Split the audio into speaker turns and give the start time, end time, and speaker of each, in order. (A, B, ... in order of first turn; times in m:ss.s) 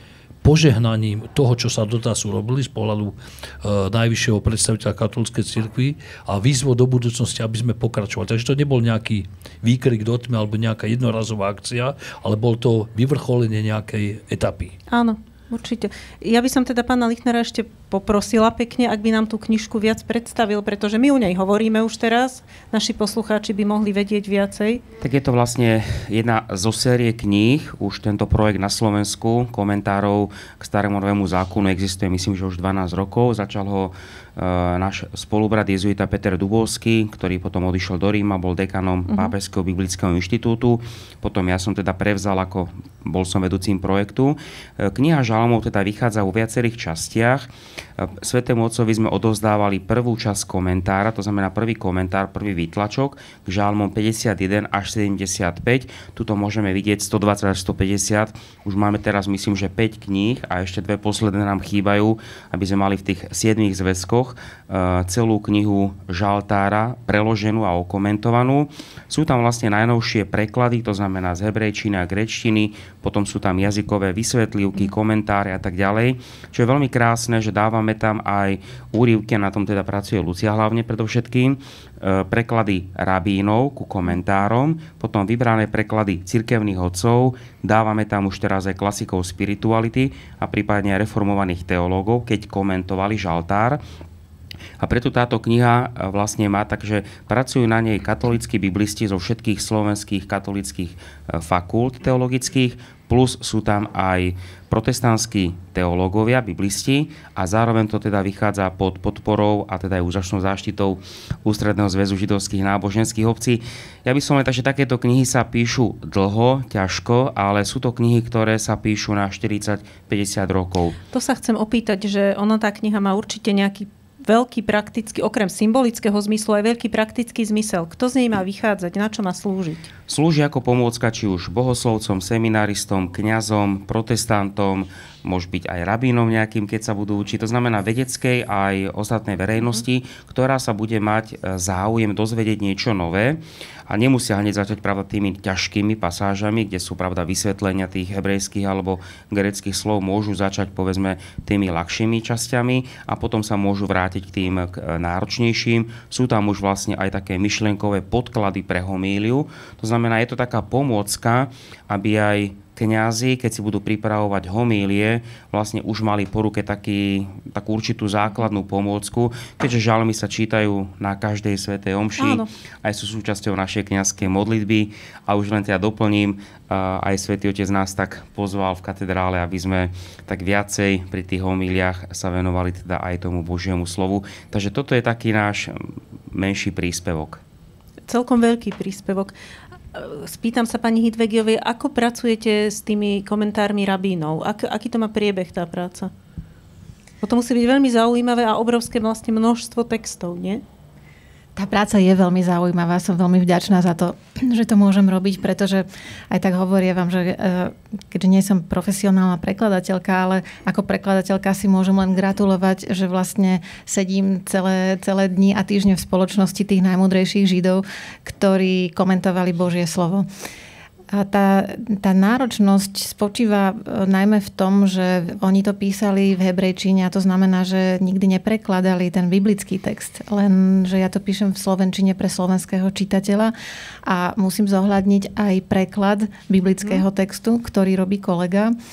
0:00.4-0:14.8 A
0:14.9-0:24.8 B
0:25.0-1:33.8 C
0:39.1-0:39.4 B
1:34.8-2:01.0 C
2:01.1-2:09.9 B
2:10.1-3:07.4 C
2:52.2-2:52.5 B
3:08.1-3:09.3 B
3:09.9-3:16.1 B
3:17.2-3:20.6 B
3:21.6-3:40.3 D
3:41.1-3:53.5 D
3:54.0-3:58.7 D